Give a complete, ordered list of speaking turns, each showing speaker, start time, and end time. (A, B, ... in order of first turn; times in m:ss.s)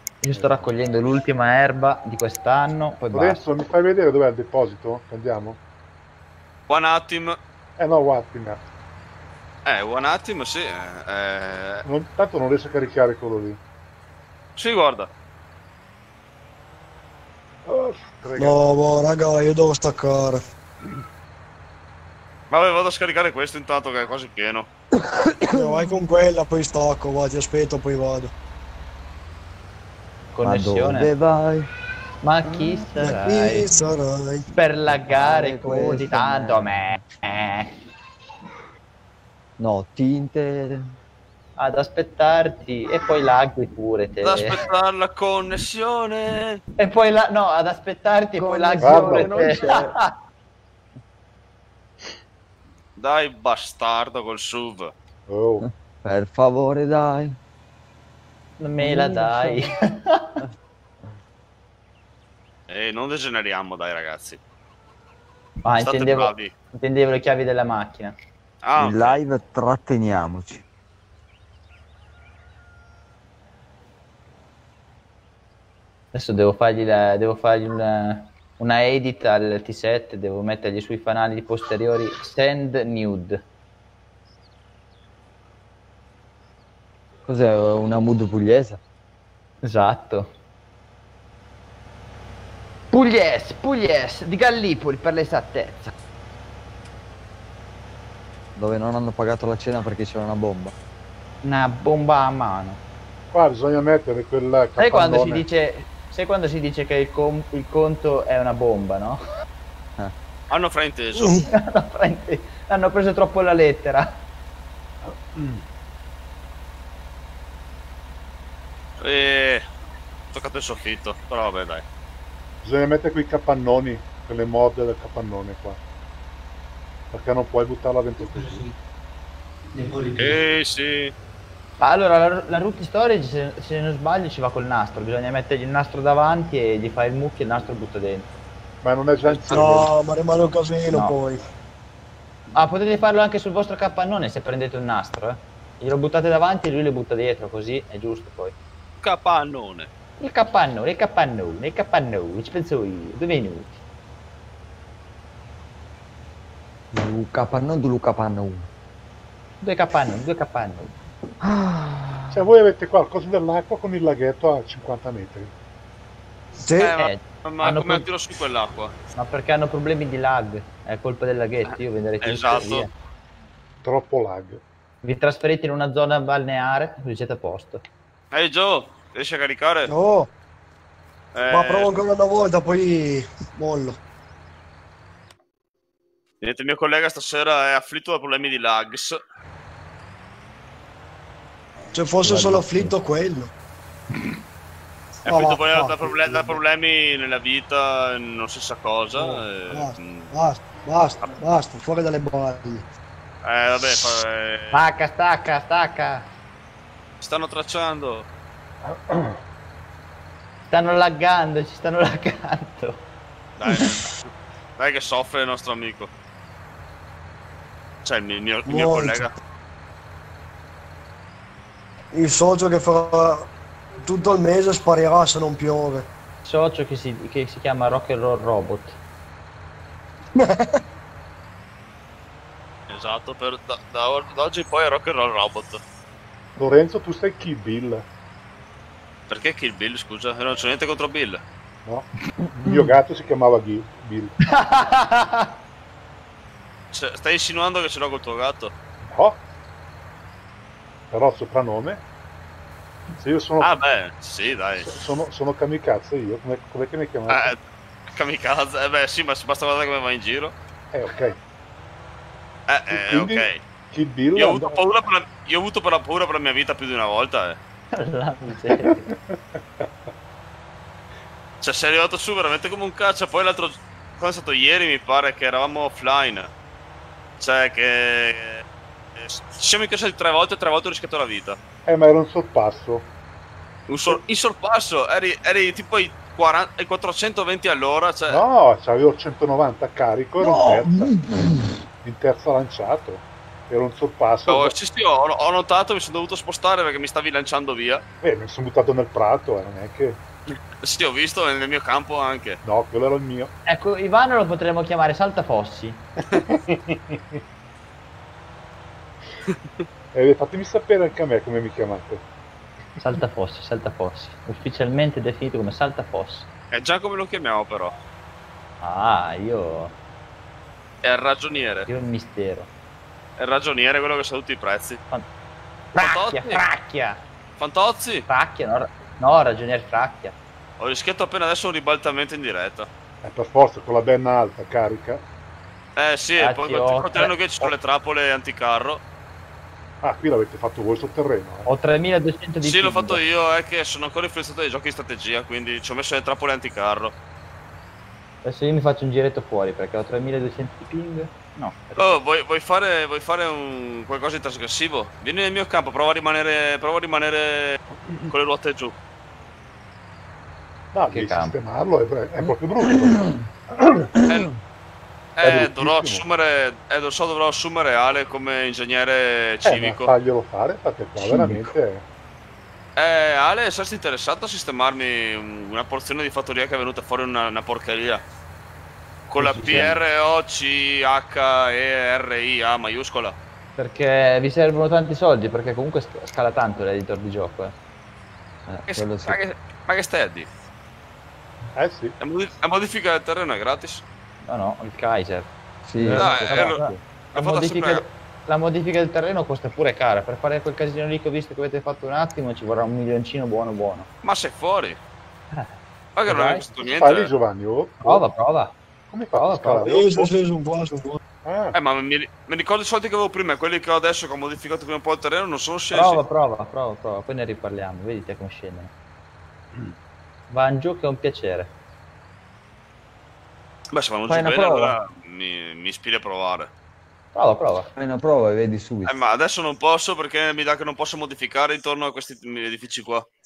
0:00.2-0:03.4 A
0:00.3-0:00.7 B
0:03.1-0:05.6 B
0:06.7-0:07.4 C
0:07.8-0:08.6 B
0:09.6-0:11.8 C
0:11.8-0:13.6 B
0:14.6-0:15.1 C
0:17.6-0:18.7 B
0:18.4-0:20.4 D
0:22.5-0:24.7 C
0:25.0-0:28.3 D
0:30.3-0:31.1 A
0:30.4-0:31.7 E
0:32.2-0:33.7 A
0:32.5-0:32.8 E
0:33.0-0:34.4 D
0:34.5-0:37.7 A
0:34.9-0:37.0 E
0:39.6-0:40.9 E
0:41.6-0:44.6 A
0:44.2-0:46.6 C
0:46.8-0:50.1 A
0:48.4-0:49.9 D
0:48.8-0:49.5 B
0:53.0-0:54.9 C
0:55.3-0:55.6 B
0:55.6-0:57.4 E
0:58.6-1:00.3 A
0:58.8-0:59.6 E
1:02.7-1:04.4 C
1:05.6-1:08.1 A
1:05.8-1:06.5 C
1:08.6-1:09.2 C
1:08.8-1:10.6 E
1:16.1-1:23.4 A
1:27.2-1:28.8 E
1:29.6-1:30.3 A
1:32.9-1:35.9 A
1:38.6-1:40.7 E
1:41.4-1:42.8 A
1:43.3-1:45.4 B
1:44.8-1:49.2 A
1:50.5-1:51.4 C
1:51.2-1:51.5 D
1:51.4-1:54.1 A
1:55.0-1:55.6 B
1:59.0-1:59.6 C
2:00.3-2:01.8 C
2:02.6-2:05.8 B
2:07.1-2:08.7 B
2:10.2-2:11.1 C
2:11.8-2:18.3 A
2:18.8-2:19.9 B
2:19.5-2:21.4 D
2:20.9-2:21.2 A
2:22.5-2:28.5 A
2:29.0-2:29.9 C
2:30.2-2:33.7 A
2:36.9-2:38.7 E
2:39.6-2:40.9 A
2:41.4-2:42.4 E
2:42.3-2:45.5 B
2:46.6-2:46.9 D
2:46.8-2:49.0 C
2:47.0-2:48.0 A
2:49.2-2:52.9 A
2:52.2-2:52.8 C
2:53.8-2:54.6 B
2:55.0-2:57.8 A
2:58.3-2:59.9 C
2:59.8-3:00.3 D
3:01.3-3:02.0 C
3:01.4-3:04.0 D
3:06.4-3:09.2 C
3:11.9-3:13.5 D
3:12.2-3:12.9 E
3:15.2-3:16.6 D
3:15.2-3:20.3 C
3:19.1-3:22.8 D
3:23.4-3:24.8 C
3:24.7-3:26.3 A
3:27.2-3:28.2 C
3:28.8-3:29.4 B
3:30.7-3:33.0 A
3:33.6-3:36.1 C
3:38.0-3:39.3 C
3:38.6-3:39.3 D
3:42.1-3:43.5 D
3:44.0-3:46.1 D
3:46.4-3:49.0 A
3:50.4-3:50.8 D
3:52.9-3:55.8 C
3:56.6-3:58.0 B
3:59.3-4:01.4 C
4:02.6-4:04.4 B
4:04.5-4:05.5 A
4:06.9-4:08.7 C
4:09.1-4:09.4 B
4:11.1-4:12.0 B
4:13.2-4:13.7 B
4:13.6-4:14.9 C
4:14.8-4:17.6 B
4:17.3-4:17.6 C
4:18.1-4:20.5 C
4:20.9-4:21.4 B
4:22.7-4:23.6 C
4:22.9-4:24.8 B
4:24.4-4:27.6 C
4:27.9-4:29.1 A
4:28.7-4:29.9 B
4:31.6-4:36.5 C
4:37.4-4:38.6 C
4:39.2-4:41.6 C
4:41.8-4:43.1 B
4:43.9-4:48.4 C
4:48.3-4:51.1 B
4:50.4-4:51.8 E
4:52.0-4:54.7 B
4:54.5-4:58.0 C
4:58.2-5:00.2 B
5:00.8-5:02.6 C
5:02.6-5:03.5 B
5:03.7-5:06.0 A
5:06.2-5:07.4 B
5:10.1-5:12.2 B
5:13.0-5:16.5 A
5:16.7-5:17.9 C
5:18.8-5:19.9 A
5:21.0-5:21.9 C
5:21.9-5:22.7 A
5:23.4-5:25.0 C
5:25.9-5:27.2 A
5:26.0-5:26.6 C
5:27.6-5:28.2 C
5:28.3-5:30.3 A
5:30.8-5:32.9 C
5:33.2-5:35.2 B
5:36.0-5:39.0 C
5:36.4-5:37.7 A
5:40.0-5:41.7 B
5:41.6-5:43.2 A
5:42.6-5:47.1 C
5:48.4-5:52.2 A
5:52.0-5:58.9 C
6:00.9-6:04.1 B
6:01.1-6:01.6 A
6:05.4-6:10.1 C
6:05.4-6:06.2 B
6:09.6-6:12.0 B
6:11.2-6:11.7 E
6:13.0-6:18.2 C
6:19.3-6:23.4 C
6:19.4-6:20.0 A
6:23.8-6:27.7 A
6:28.7-6:29.4 E
6:28.9-6:30.5 C
6:31.8-6:32.1 B
6:32.2-6:34.0 C
6:34.4-6:44.1 A
6:35.9-6:36.8 E
6:36.1-6:38.0 C
6:44.2-6:45.0 C
6:45.5-6:45.8 A
6:46.2-6:47.3 C
6:46.3-6:46.6 A
6:46.8-6:48.2 B
6:48.0-6:48.7 A
6:49.1-6:50.3 B
6:49.3-6:50.0 A
6:49.8-6:51.2 D
6:51.4-6:51.8 B
6:51.7-6:56.2 C
6:55.9-6:58.9 A
7:00.5-7:01.7 A
7:03.9-7:06.7 C
7:04.3-7:04.9 E
7:07.3-7:07.9 A
7:08.0-7:09.1 E
7:09.0-7:13.3 C